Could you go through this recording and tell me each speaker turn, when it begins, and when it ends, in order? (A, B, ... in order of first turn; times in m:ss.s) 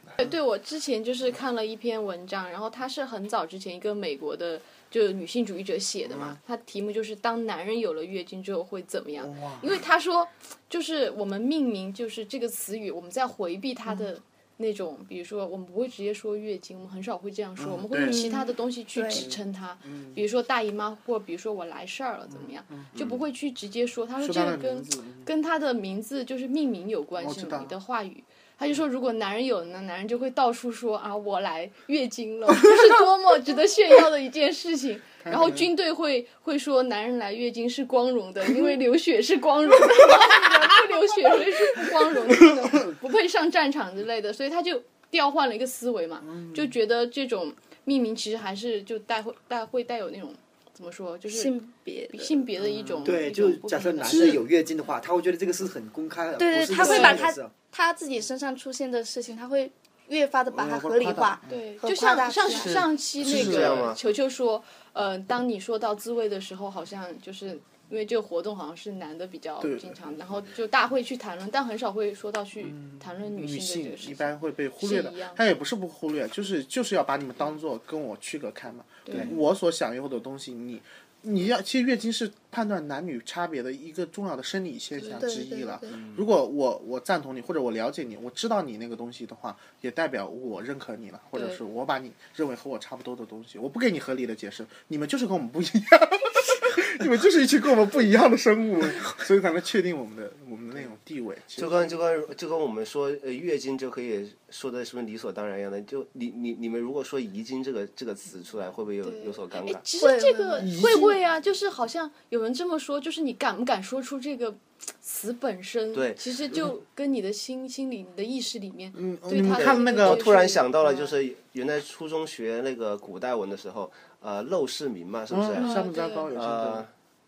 0:00.2-0:51.5 A
0:06.1-0:06.4 B
0:09.2-0:09.7 B
0:17.6-0:18.3 B
0:18.0-0:19.2 C
0:19.1-0:20.2 B
0:22.7-0:23.0 B
0:24.2-0:25.3 B
0:27.2-0:27.7 B
0:35.2-0:35.7 B
0:40.2-0:40.6 B
0:41.8-0:42.8 B
0:46.2-0:46.7 B
0:51.3-0:52.4 C
0:52.1-0:54.4 A
0:52.6-0:53.2 B
0:53.0-0:57.5 D
0:54.1-0:54.4 B
0:56.4-1:02.8 C
0:56.8-0:57.2 A
1:00.5-1:01.6 B
1:01.4-1:15.4 A
1:02.4-1:04.0 E
1:03.2-1:03.9 B
1:09.6-1:10.0 B
1:12.6-1:41.9 B
1:19.1-1:19.3 A
1:25.2-1:26.0 C
1:25.9-1:26.2 E
1:31.3-1:31.6 A
1:41.6-1:49.8 E
1:49.0-2:01.1 A
1:50.0-1:50.8 C
1:50.6-1:51.2 B
1:55.9-1:56.2 E
1:58.9-2:00.3 B
1:59.5-2:06.9 E
2:05.3-2:06.9 B
2:05.6-2:06.3 A